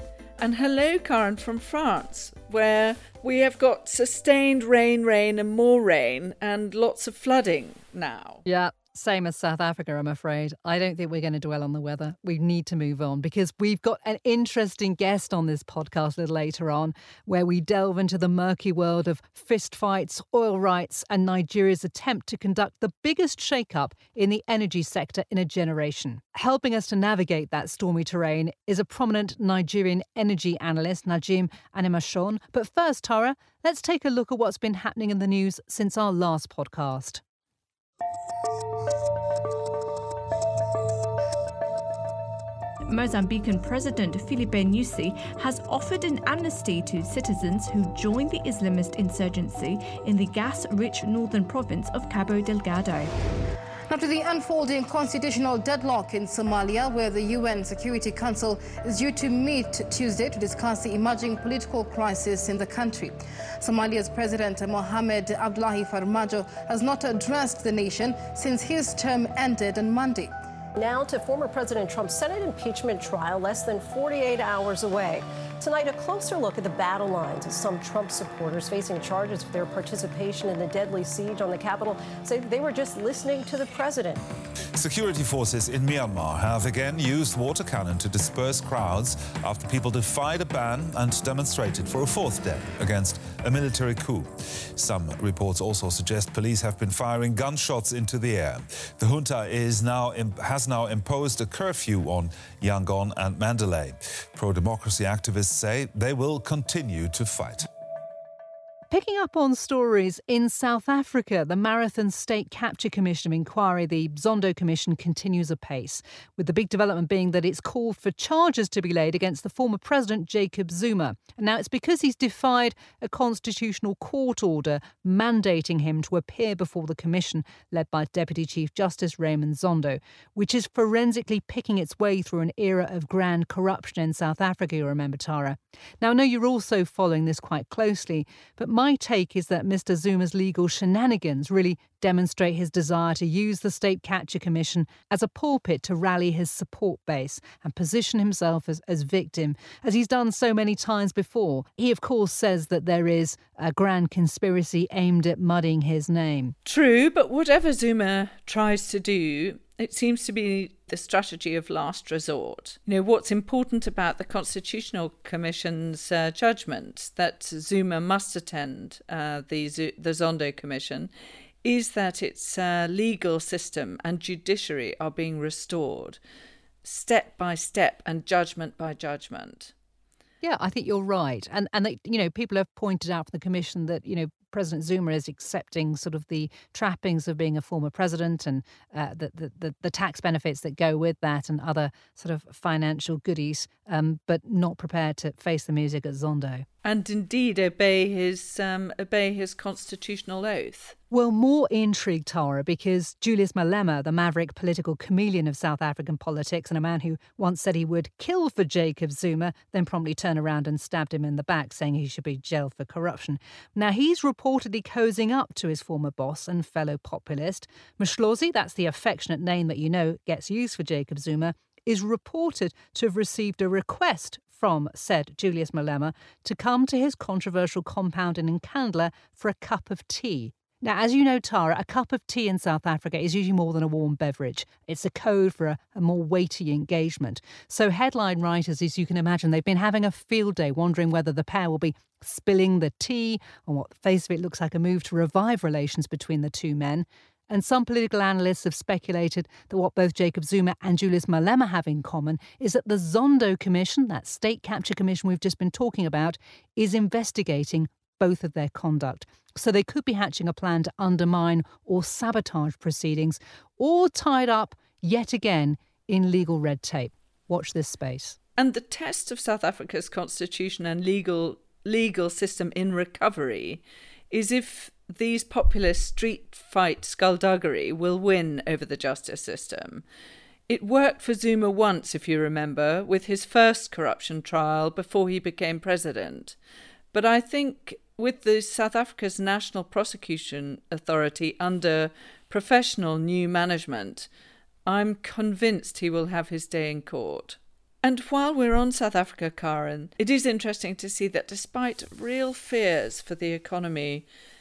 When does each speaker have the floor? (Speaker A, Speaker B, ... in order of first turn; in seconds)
Speaker A: 0.4-8.4, 156.6-171.1, 171.6-176.2, 176.8-179.7, 196.8-200.9, 268.6-280.0, 280.7-286.6, 287.1-294.3, 294.9-304.2
Speaker B: 8.4-37.2, 108.9-156.6, 180.4-196.7, 201.1-268.4
Speaker C: 42.9-53.1
Speaker D: 53.9-70.3
Speaker E: 70.7-84.2
Speaker F: 84.8-107.7